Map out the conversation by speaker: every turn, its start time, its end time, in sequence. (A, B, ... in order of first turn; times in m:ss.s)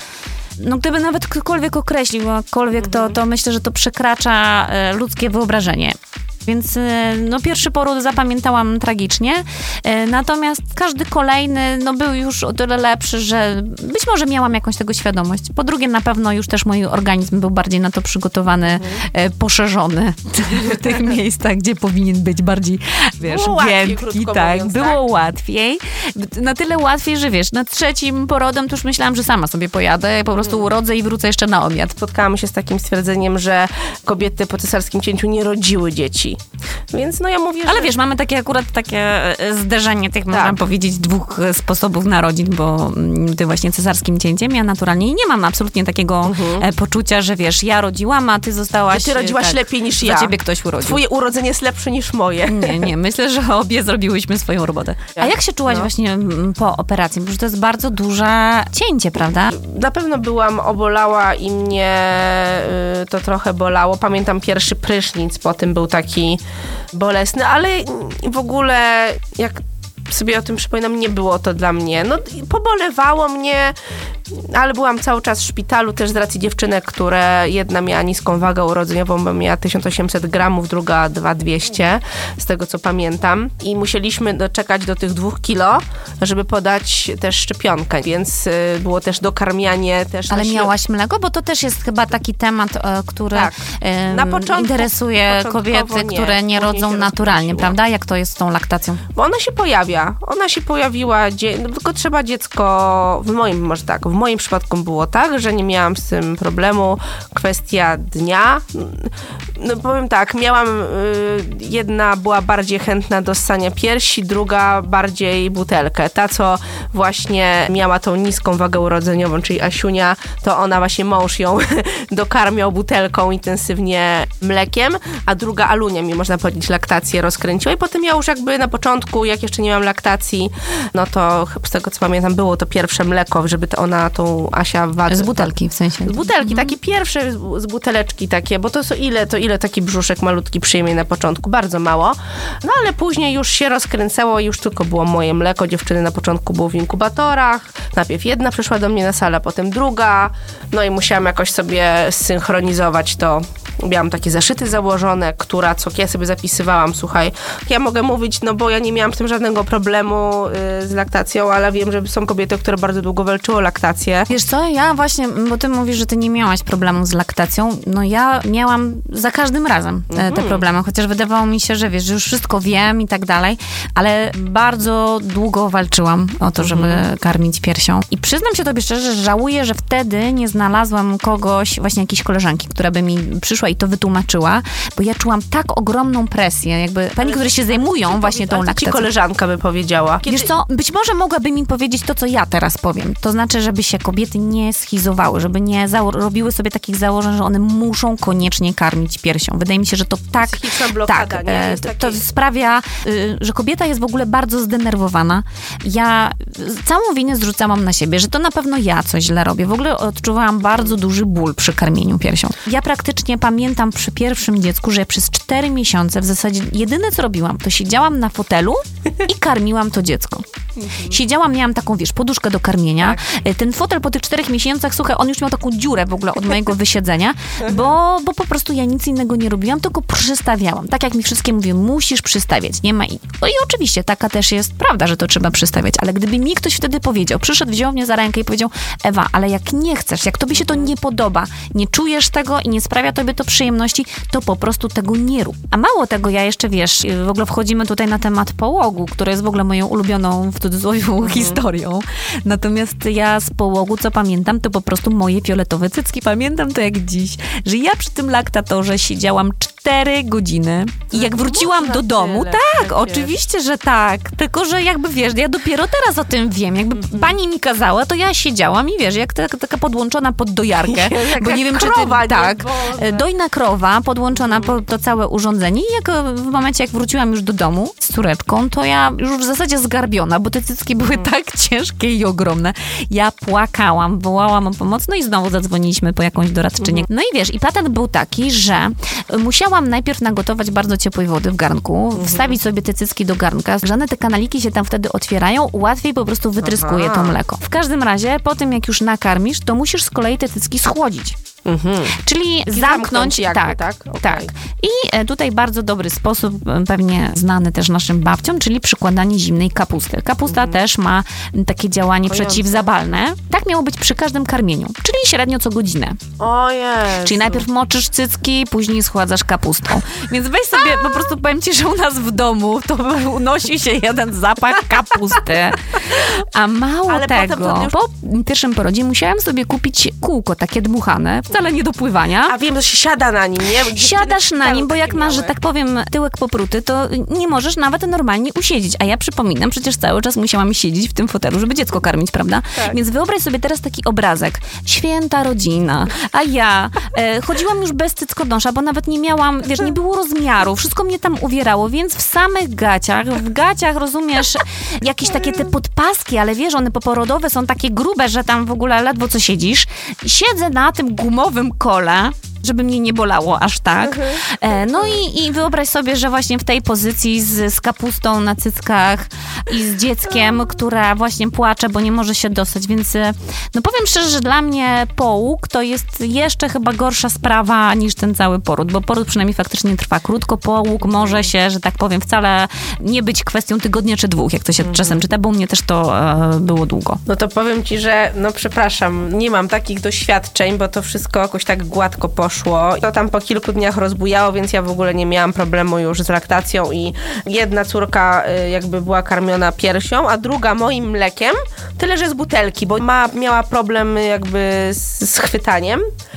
0:00.6-0:32.0 A
0:02.8-0:03.2 B
0:23.2-0:25.0 B
0:32.0-0:37.9 B
0:37.7-0:51.0 A
0:40.3-0:40.6 B
0:46.2-0:46.7 B
0:48.9-0:52.9 B
0:52.5-0:59.6 A
0:55.2-0:55.9 B
0:59.5-1:13.8 B
1:14.3-1:30.7 B
1:30.3-1:39.0 A
1:34.1-1:37.8 B
1:39.1-2:44.3 B
2:15.1-2:16.7 A
2:44.3-3:09.1 A
2:50.1-2:50.6 B
2:56.6-2:57.1 B
3:07.2-3:10.5 B
3:10.3-5:01.4 A
3:20.4-3:22.2 B
4:00.6-4:00.9 B
4:11.2-4:11.6 B
4:21.1-4:23.4 B
4:27.0-4:27.3 B
4:30.8-4:33.3 B
4:34.4-4:34.8 B
4:46.8-4:47.1 B
4:52.2-4:52.6 B
4:56.6-4:57.4 B
5:01.6-5:02.2 B
5:02.2-5:16.2 A
5:02.7-5:04.5 B
5:10.5-5:10.8 B
5:12.3-5:12.9 B
5:16.4-5:17.7 B
5:17.2-5:32.6 A
5:27.1-5:28.0 B
5:32.5-5:35.6 B
5:33.9-6:27.2 A
6:04.1-6:04.4 B
6:21.1-6:21.4 B
6:24.8-6:25.2 B
6:27.3-6:46.0 B